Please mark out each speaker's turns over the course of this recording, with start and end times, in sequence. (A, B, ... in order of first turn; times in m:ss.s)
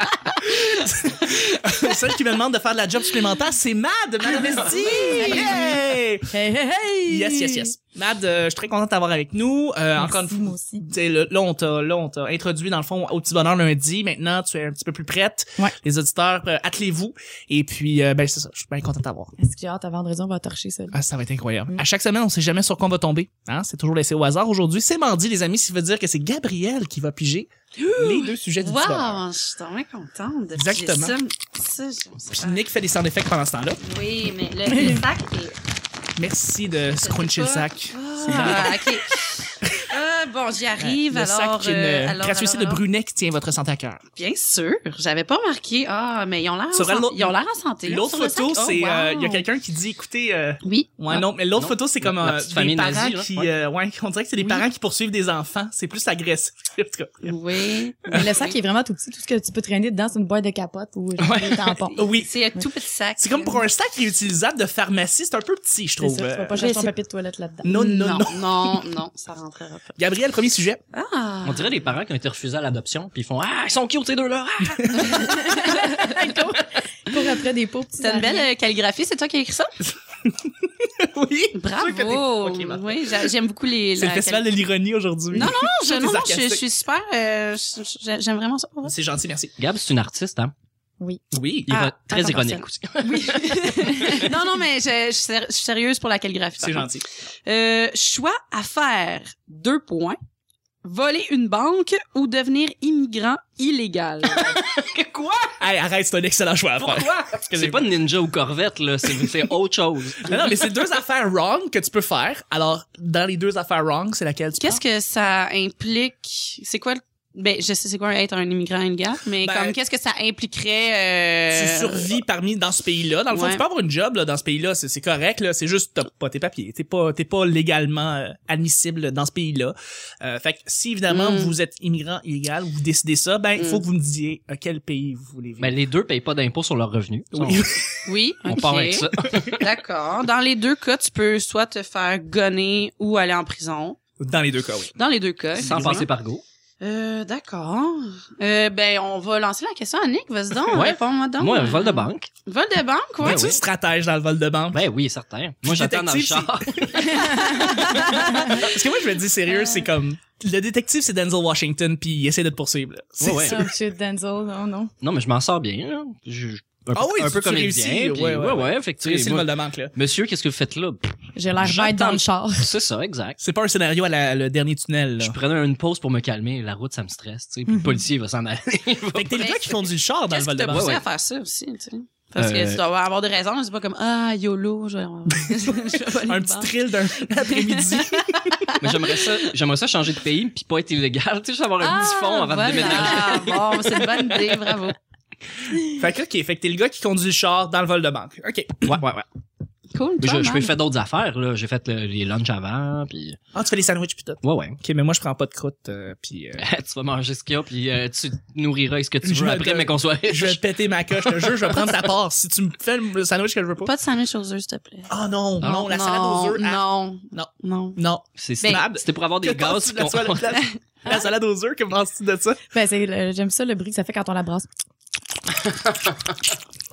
0:00.4-0:06.3 A
0:04.4-0:05.7 B
0:04.9-0:05.7 C
0:06.3-0:07.7 C
0:07.0-0:19.3 A
0:10.0-0:10.9 C
0:19.4-0:21.0 C
0:20.9-0:29.2 A
0:27.8-0:32.6 B
0:30.6-0:31.2 A
0:32.3-0:33.8 A
0:33.8-0:35.6 B
0:34.7-0:35.0 C
0:36.2-0:39.0 A
0:36.9-0:42.8 B
0:39.6-0:39.9 A
0:40.8-0:44.0 A
0:44.2-0:49.4 B
0:46.7-0:57.4 A
0:50.6-0:51.2 B
0:51.6-0:53.5 D
0:54.4-0:54.6 B
0:57.2-0:58.5 B
0:58.1-1:02.0 C
1:01.2-1:01.8 D
1:01.9-1:02.3 A
1:02.0-1:03.6 B
1:03.2-1:06.6 A
1:06.0-1:08.2 C
1:06.6-1:06.9 B
1:07.6-1:08.7 A
1:07.9-1:10.0 B
1:10.0-1:10.8 A
1:10.9-1:11.8 B
1:11.4-1:16.4 D
1:14.8-1:15.1 A
1:15.0-1:15.3 B
1:15.1-1:18.5 C
1:18.0-1:19.7 B
1:19.8-1:23.3 A
1:21.5-1:24.5 B
1:24.0-1:26.6 A
1:25.3-1:28.9 B
1:28.8-1:29.5 A
1:29.6-1:30.5 D
1:31.3-1:31.7 A
1:31.7-1:33.9 D
1:31.7-1:40.2 B
1:33.0-1:34.3 C
1:36.6-1:37.0 A
1:40.8-1:44.6 B
1:44.4-1:45.6 D
1:45.6-1:47.9 A
1:46.8-1:50.6 D
1:49.1-1:49.4 A
1:50.2-1:54.8 A
1:54.6-2:02.2 B
1:59.4-1:59.8 A
2:01.5-2:15.7 A
2:03.3-2:03.6 B
2:11.1-2:11.5 B
2:13.6-2:13.8 B
2:15.6-2:17.7 D
2:17.3-2:18.0 A
2:18.0-2:24.0 B
2:18.4-2:19.6 D
2:24.2-2:24.9 A
2:25.0-2:26.1 B
2:25.6-2:26.4 D
2:26.8-2:33.6 B
2:30.7-2:32.3 D
2:33.2-2:34.8 A
2:33.2-2:33.6 D
2:34.7-2:38.7 D
2:35.6-2:43.6 A
2:37.0-2:38.6 C
2:39.5-2:39.9 B
2:43.2-2:43.7 D
2:43.3-2:44.9 C
2:45.0-2:53.4 D
2:46.9-2:49.9 A
2:51.3-2:52.7 C
2:53.4-2:55.4 A
2:55.2-2:59.6 D
2:59.1-3:00.9 A
2:59.4-2:59.8 B
3:00.3-3:09.4 B
3:00.7-3:01.0 D
3:02.4-3:02.8 D
3:05.4-3:08.6 A
3:08.8-3:14.3 D
3:11.8-3:15.0 B
3:15.8-3:19.0 A
3:18.8-3:19.2 D
3:19.9-3:20.7 B
3:20.2-3:23.4 D
3:23.5-3:26.6 A
3:24.4-3:24.8 D
3:26.6-3:30.6 D
3:29.2-3:33.9 A
3:31.2-3:31.9 D
3:33.8-3:38.0 B
3:35.1-3:36.8 A
3:37.3-3:42.6 A
3:38.4-3:40.6 D
3:42.7-3:44.7 C
3:45.6-3:46.2 D